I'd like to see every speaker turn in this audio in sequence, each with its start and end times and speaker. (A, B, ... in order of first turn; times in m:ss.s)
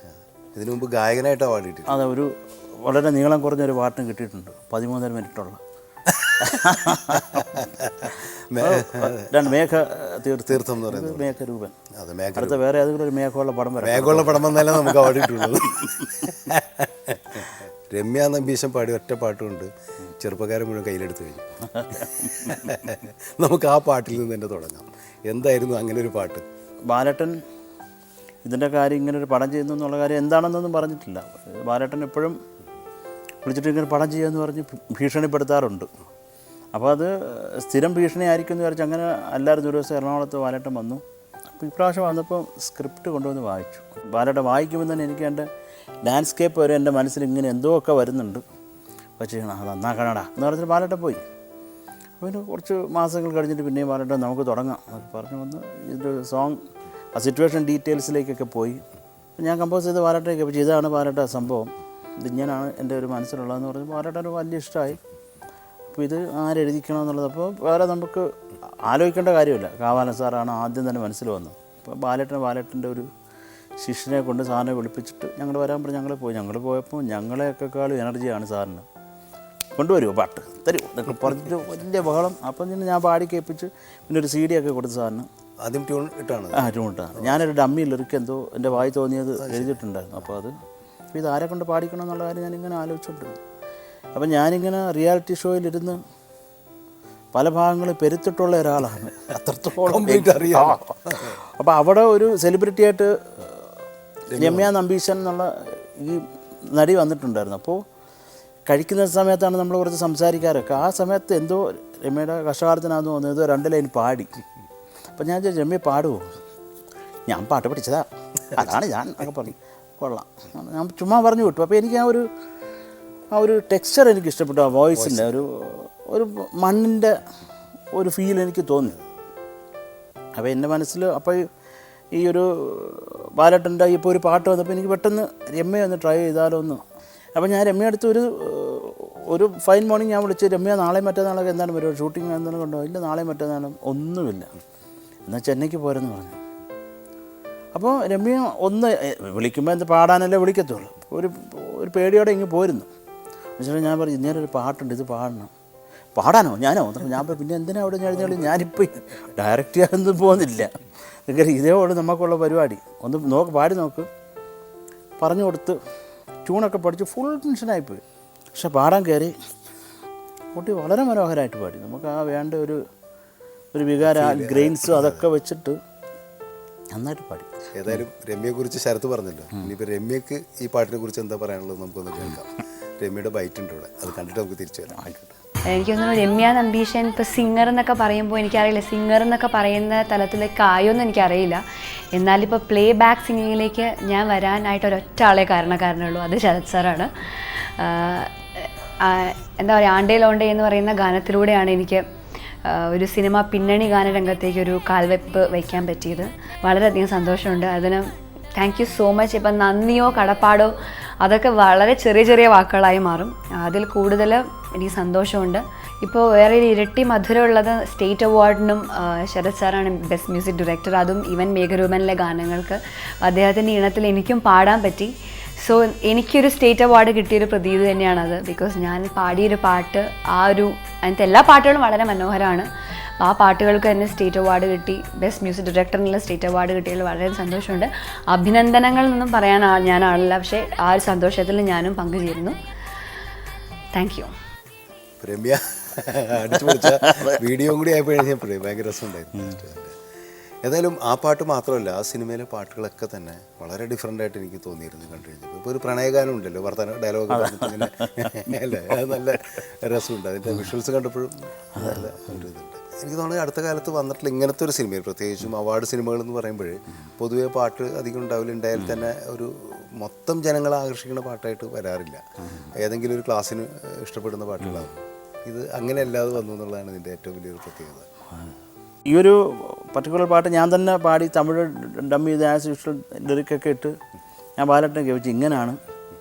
0:00.5-0:02.0 A
0:01.9-0:05.6 B
0:06.2-0:06.6 A
0:06.4-0:11.8 B
0:07.1-0:09.4 A
0:10.5-0:11.4 A
0:11.9-0:12.6 A
0:12.4-0:16.0 B
0:13.8-0:26.4 A
0:21.8-0:22.6 B
0:26.9-0:27.4 B
0:28.4-0:32.4 B
0:33.4-0:35.9 B
0:36.7-0:41.0 B
0:41.6-0:45.5 B
0:46.0-0:48.4 B
0:49.2-0:51.2 B
0:52.2-0:56.6 B
0:57.2-0:58.8 B
0:59.4-1:05.0 B
1:05.9-1:08.3 B
1:08.9-1:13.1 B
1:13.8-1:18.9 B
1:19.8-1:25.3 B
1:25.6-1:27.4 A
1:26.5-1:30.5 B
1:29.4-1:29.8 A
1:31.1-1:33.4 B
1:34.2-1:36.0 B
1:37.3-1:39.2 B
1:39.3-1:41.4 A
1:39.7-1:43.7 B
1:44.3-1:44.7 A
1:44.4-1:47.8 B
1:48.7-1:54.3 B
1:55.2-1:56.3 B
1:57.3-2:02.3 B
2:03.3-2:07.2 B
2:05.0-2:05.3 A
2:08.0-2:09.0 B
2:10.4-2:11.5 B
2:12.1-2:16.8 B
2:17.4-2:24.5 B
2:25.3-2:26.4 B
2:27.7-2:32.9 B
2:33.6-2:35.5 B
2:36.2-2:40.7 B
2:41.3-2:44.1 B
2:45.2-2:45.8 B
2:46.4-2:48.0 B
2:48.5-2:49.4 B
2:50.5-2:52.8 B
2:53.7-2:55.8 B
2:54.0-2:55.3 A
2:56.9-2:58.0 B
2:57.7-3:05.4 A
3:05.7-3:11.6 C
3:12.1-3:18.3 C
3:19.0-3:22.0 C
3:22.6-3:52.7 C
3:53.2-4:02.6 C
4:04.0-4:04.3 C
4:05.2-4:10.0 A
4:06.6-4:07.4 B
4:10.6-4:38.1 A
4:17.3-4:18.3 B
4:21.8-4:22.4 B
4:39.1-4:44.0 B
4:44.6-4:45.8 B